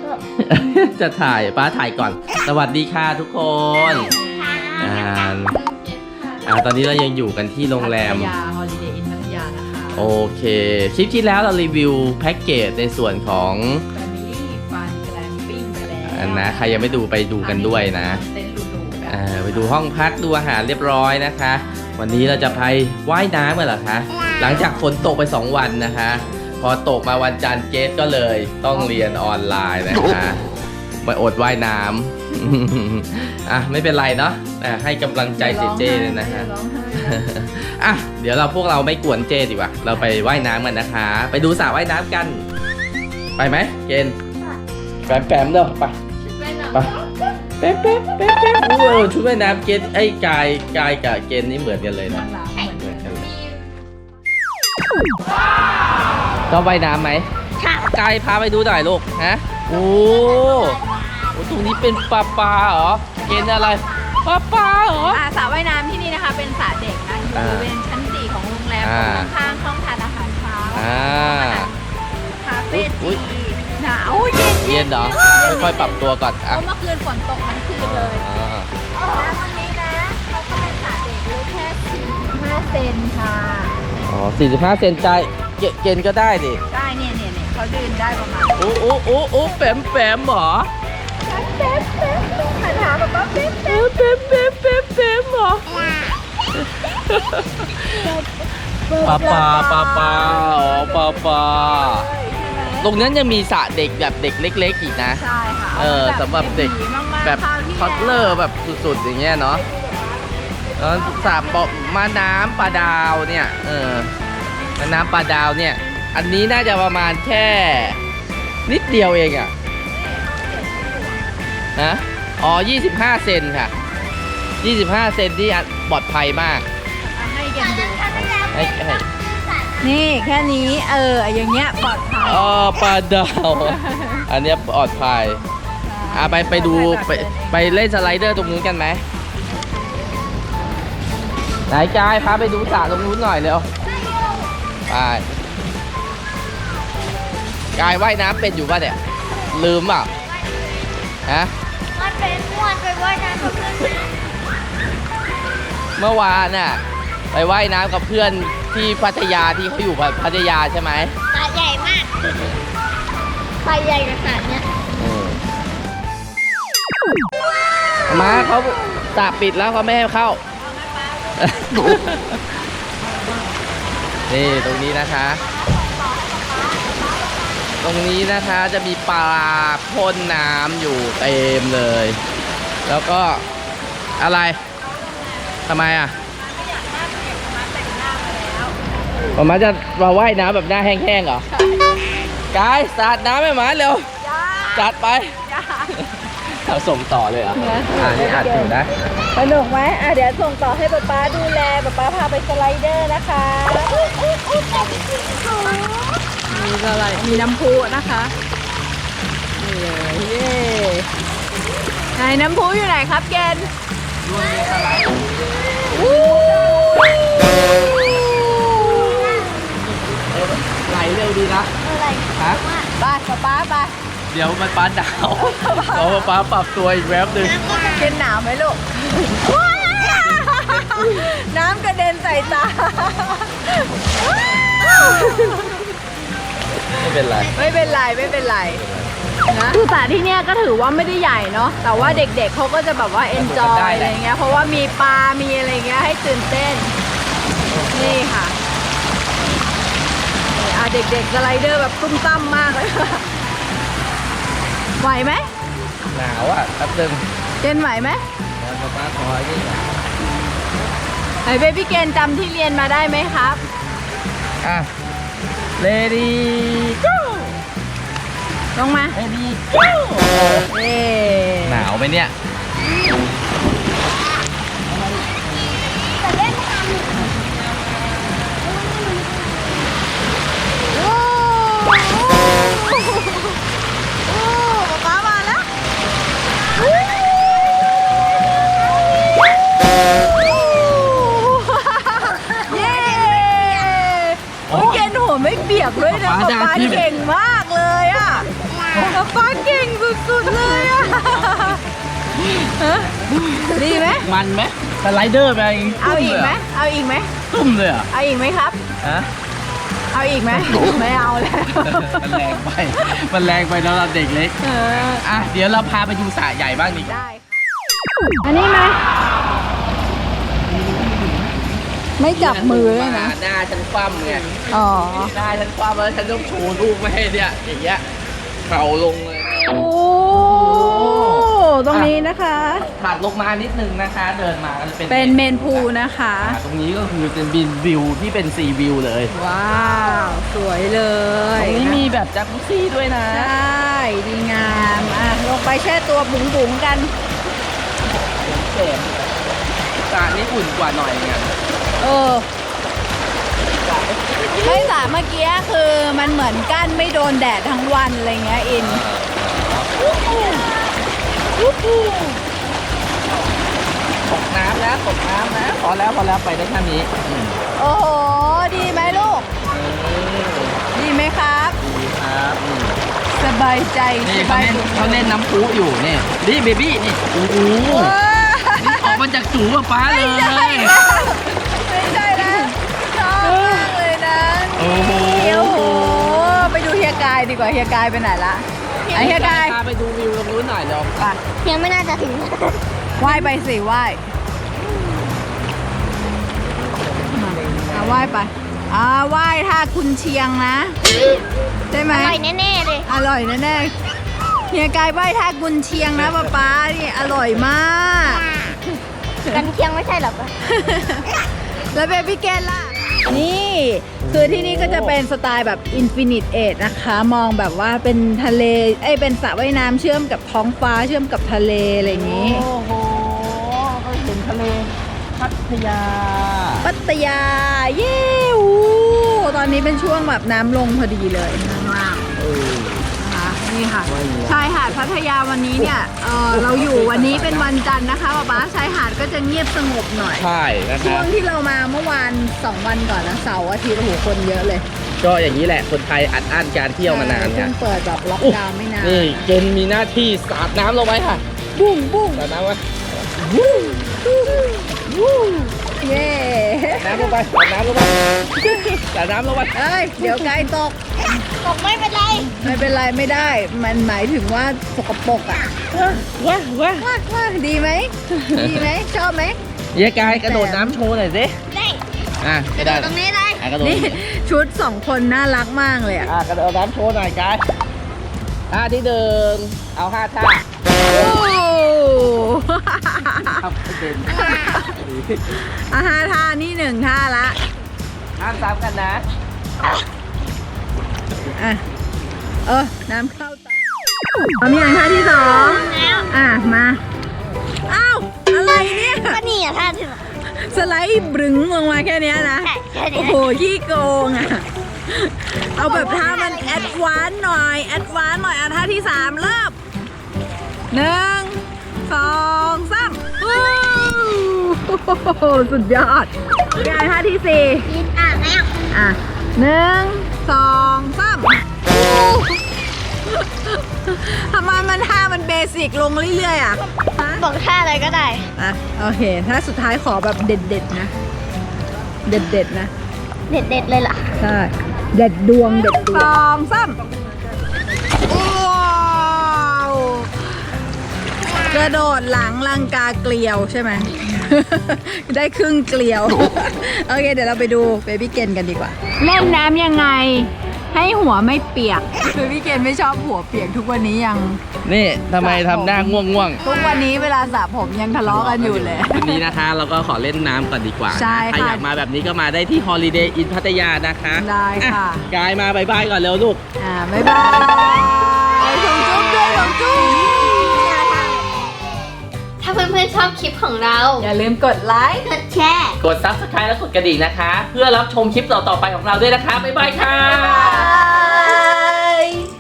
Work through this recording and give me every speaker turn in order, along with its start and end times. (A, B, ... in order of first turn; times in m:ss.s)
0:00.4-0:04.1 A
0:03.9-0:06.4 B
0:04.1-0:04.8 C
0:04.8-0:05.6 A
0:06.4-0:08.3 A
0:07.8-0:10.1 C
0:10.0-0:13.9 A
0:13.9-0:19.8 C
0:16.0-0:18.2 A
0:19.1-0:30.4 A
0:21.6-0:22.7 C
0:26.4-0:26.6 C
0:28.7-0:29.4 C
0:31.0-0:42.4 A
0:35.4-0:37.3 C
0:43.4-0:44.2 A
0:45.1-0:46.0 A
0:46.3-0:46.7 B
0:47.6-0:53.3 A
0:52.1-0:53.2 C
0:56.5-0:57.3 A
0:57.6-0:58.0 B
0:57.9-1:00.8 A
0:59.7-1:01.4 B
1:01.3-1:05.2 A
1:05.0-1:11.8 C
1:07.3-1:07.7 A
1:08.8-1:09.3 A
1:10.8-1:11.7 A
1:12.4-1:18.2 C
1:12.7-1:13.2 A
1:14.6-1:16.6 A
1:17.8-1:18.7 A
1:19.0-1:19.4 B
1:19.1-1:23.8 C
1:24.1-1:26.6 A
1:26.7-1:28.7 C
1:28.6-1:30.7 A
1:31.3-1:33.9 C
1:33.7-1:35.8 A
1:36.5-1:38.2 A
1:38.9-1:42.9 C
1:39.0-1:42.1 A
1:42.8-1:45.2 A
1:45.1-1:48.4 C
1:45.8-1:49.6 A
1:49.7-1:50.1 C
1:50.8-1:54.1 A
1:50.8-1:51.6 C
1:54.8-1:58.0 A
1:58.7-1:59.5 A
1:59.9-2:01.2 C
2:01.8-2:03.7 A
2:04.6-2:06.6 A
2:07.1-2:08.0 C
2:07.6-2:10.6 B
2:08.1-2:09.0 A
2:09.8-2:12.7 C
2:12.2-2:15.4 A
2:13.6-2:14.2 C
2:15.8-2:18.2 C
2:16.1-2:19.0 A
2:21.7-2:23.7 A
2:23.8-2:24.5 B
2:24.9-2:25.2 A
2:27.8-2:29.0 A
2:29.5-2:30.1 A
2:30.2-2:30.9 B
2:31.3-2:31.5 A
2:32.0-2:34.1 B
2:36.0-2:36.8 A
2:37.3-2:41.1 A
2:41.3-2:42.6 B
2:43.6-2:44.7 B
2:45.0-2:45.4 A
2:48.1-2:50.4 A
2:50.5-2:51.8 C
2:51.4-2:52.4 A
2:54.3-2:55.4 A
2:55.4-2:57.4 B
2:55.9-2:57.4 C
2:57.8-3:02.2 A
3:02.9-3:03.4 A
3:04.2-3:04.6 A
3:04.7-3:05.6 C
3:05.7-3:06.2 A
3:06.2-3:08.8 C
3:09.4-3:11.4 A
3:11.5-3:12.0 C
3:12.5-3:14.1 A
3:14.2-3:15.9 C
3:14.7-3:15.3 A
3:15.9-3:18.9 A
3:17.6-3:28.3 C
3:24.7-3:25.6 B
3:29.6-3:31.1 C
3:32.2-3:33.7 C
3:34.2-3:35.3 A
3:34.4-3:36.0 B
3:35.9-3:39.2 C
3:37.9-3:39.4 A
3:39.1-3:39.6 B
3:40.1-3:41.7 A
3:41.8-3:42.9 B
3:42.4-3:42.6 A
3:43.0-3:43.9 C
3:44.3-3:47.6 A
3:45.4-3:46.3 C
3:47.4-3:48.1 B
3:47.7-3:55.9 C
3:50.4-3:51.0 A
3:55.2-3:55.7 A
3:56.9-3:58.0 A
3:57.5-3:58.8 C
3:58.6-3:59.7 A
3:59.5-4:06.9 C
4:01.9-4:02.3 A
4:03.3-4:05.1 A
4:07.6-4:08.2 A
4:07.9-4:08.6 C
4:10.5-4:13.3 C
4:15.0-4:15.5 C
4:16.1-4:17.2 A
4:17.6-4:18.2 C
4:18.6-4:19.9 A
4:21.4-4:23.6 C
4:24.6-4:24.9 A
4:25.8-4:27.6 A
4:28.8-4:29.2 C
4:29.1-4:30.7 A
4:30.7-4:31.9 C
4:31.7-4:32.3 A
4:34.9-4:35.4 A
4:36.2-4:37.3 B
4:40.9-4:43.6 C
4:44.3-4:45.7 C
4:50.3-4:58.5 C
4:52.4-4:54.0 B
4:54.7-4:55.1 A
4:56.0-4:57.2 A
4:58.9-4:59.3 A
4:59.1-5:01.8 C
5:00.6-5:01.8 A
5:02.5-5:03.2 C
5:03.2-5:06.6 A
5:03.7-5:04.3 C
5:06.0-5:07.4 C
5:07.5-5:08.1 A
5:08.1-5:08.8 C
5:09.0-5:09.3 A
5:10.1-5:12.6 C
5:11.8-5:14.6 A
5:14.6-5:15.2 C
5:15.1-5:17.2 A
5:17.0-5:17.6 C
5:18.4-5:19.0 C
5:20.7-5:21.6 A
5:22.2-5:23.4 C
5:22.3-5:28.0 A
5:24.7-5:25.4 C
5:28.6-5:29.7 A
5:29.5-5:32.9 C
5:30.3-5:32.1 A
5:32.9-5:35.9 A
5:35.1-5:36.6 C
5:36.4-5:39.3 A
5:39.3-5:42.1 C
5:41.6-5:43.5 A
5:43.3-5:47.1 C
5:48.4-5:49.2 A
5:50.1-5:51.5 A
5:52.0-5:52.5 C
5:53.7-5:55.1 A
5:54.6-5:59.0 C
5:58.8-6:00.7 A
6:01.6-6:02.4 A
6:04.3-6:07.6 A
6:07.8-6:09.5 C
6:09.7-6:10.8 A
6:10.9-6:11.8 C
6:11.8-6:13.0 A
6:13.3-6:15.4 C
6:14.2-6:18.2 A
6:17.9-6:19.2 C
6:18.8-6:21.5 A
6:20.0-6:29.8 C
6:22.3-6:22.7 A
6:23.4-6:24.0 A
6:24.8-6:26.5 A
6:29.0-6:29.4 B
6:29.1-6:31.4 A
6:31.6-6:32.8 B
6:33.2-6:34.2 C
6:37.3-6:41.0 C
6:37.3-6:38.3 A
6:41.9-6:42.4 C
6:42.1-6:43.1 B
6:43.1-6:43.9 C
6:44.7-6:48.4 C
6:46.2-6:46.5 A
6:49.5-6:50.5 B
6:50.6-6:51.3 C
6:51.8-7:02.7 C
6:54.2-6:55.2 A
7:02.0-7:06.9 A
7:06.8-7:12.3 C
7:12.4-7:13.1 A
7:13.2-7:24.9 C
7:14.1-7:14.8 A
7:16.5-7:17.7 A
7:20.4-7:21.3 A
7:25.2-7:27.7 A
7:27.0-7:29.5 C
7:28.4-7:31.4 A
7:31.8-7:32.4 C
7:32.3-7:32.8 A
7:33.3-7:35.8 A
7:34.2-7:34.7 C
7:36.0-7:37.4 C
7:37.0-7:40.7 A
7:39.7-7:41.0 C
7:41.6-7:42.6 B
7:42.6-7:45.7 C
7:45.9-7:47.1 A
7:47.0-7:49.6 C
7:48.4-7:48.9 A
7:49.9-7:51.6 A
7:50.2-7:51.0 C
7:51.7-7:52.0 B
7:52.4-7:54.2 A
7:52.7-7:53.6 B
7:53.8-7:56.3 C
7:56.2-7:57.6 A
7:58.7-8:00.6 A
8:01.0-8:03.6 C
8:03.4-8:05.6 A
8:04.3-8:05.0 C
8:05.6-8:07.6 C
8:08.4-8:09.2 A
8:11.6-8:11.8 C
8:12.7-8:13.8 C
8:14.6-8:17.0 C
8:15.4-8:16.3 B
8:17.9-8:19.4 C
8:19.0-8:20.2 B
8:20.4-8:29.8 C
8:22.6-8:23.6 B
8:25.8-8:27.0 B
8:30.9-8:37.9 C
8:37.9-8:38.7 B
8:38.9-8:47.5 C
8:47.4-8:48.5 B
8:48.6-8:51.1 C
8:52.3-8:52.9 C
8:53.5-8:54.4 B
8:54.4-8:57.0 C
8:55.8-8:56.3 B
8:58.3-9:00.5 C
9:01.7-9:14.6 C
9:14.8-9:16.6 A
9:15.4-9:19.4 C
9:18.2-9:26.6 A
9:21.1-9:21.8 C
9:24.4-9:25.3 C
9:26.8-9:30.7 C
9:29.3-9:31.5 B
9:32.6-9:34.3 B
9:34.2-9:35.3 C
9:35.2-9:36.0 B
9:36.0-9:41.0 A
9:40.1-9:42.3 C
9:40.2-9:42.0 B